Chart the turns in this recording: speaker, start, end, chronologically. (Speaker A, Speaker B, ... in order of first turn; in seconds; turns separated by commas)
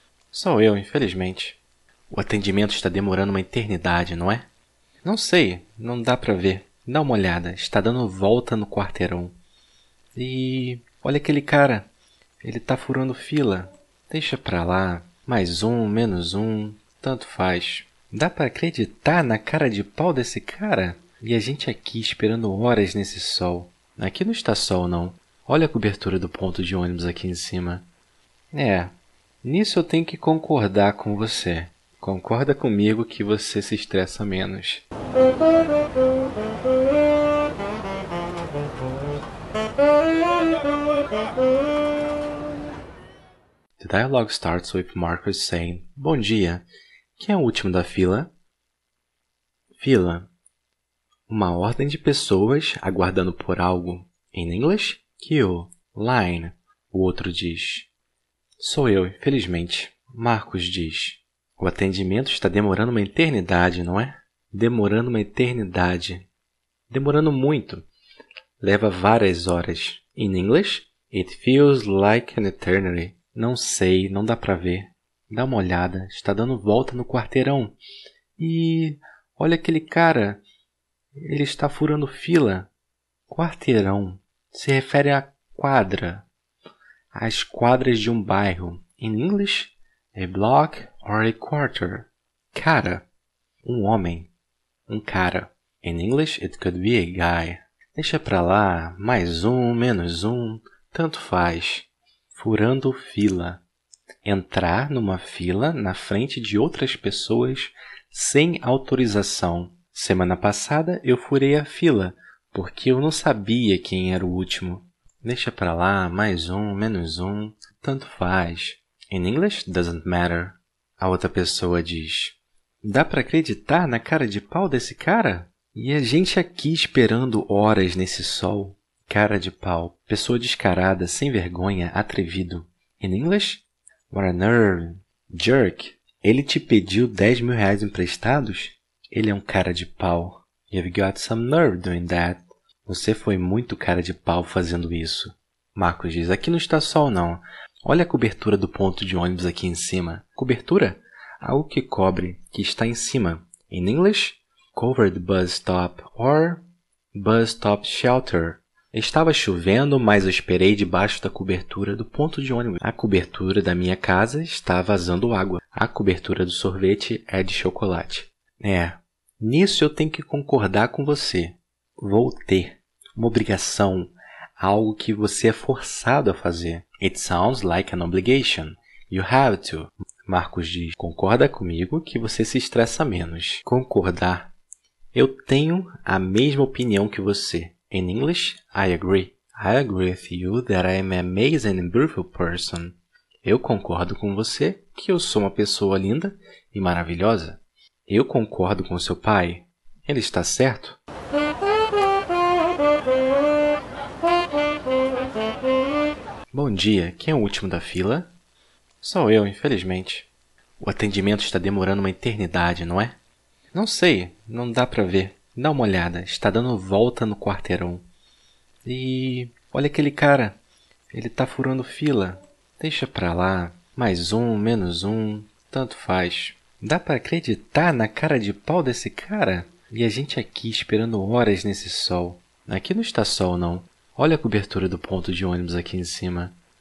Speaker A: 0.3-4.5, Speaker A: 5.0-9.3, Speaker A: 10.2-11.9, Speaker A: 12.4-27.9, Speaker A: 28.5-34.9, Speaker A: 43.8-48.3, Speaker A: 49.8-50.3, Speaker A: 51.3-57.9, Speaker A: 58.6-66.3, Speaker A: 66.9-67.9, Speaker A: 68.6-77.8, Speaker A: 78.4-80.4, Speaker A: 81.2-82.7, Speaker A: 83.3-86.3, Speaker A: 87.1-93.1, Speaker A: 93.6-94.3, Speaker A: 94.9-103.6, Speaker A: 104.2-184.5, Speaker A: 185.1-201.0, Speaker A: 206.5-208.3, Speaker A: 209.0-213.2, Speaker A: 213.7-218.1, Speaker A: 218.8-220.6, Speaker A: 221.1-236.6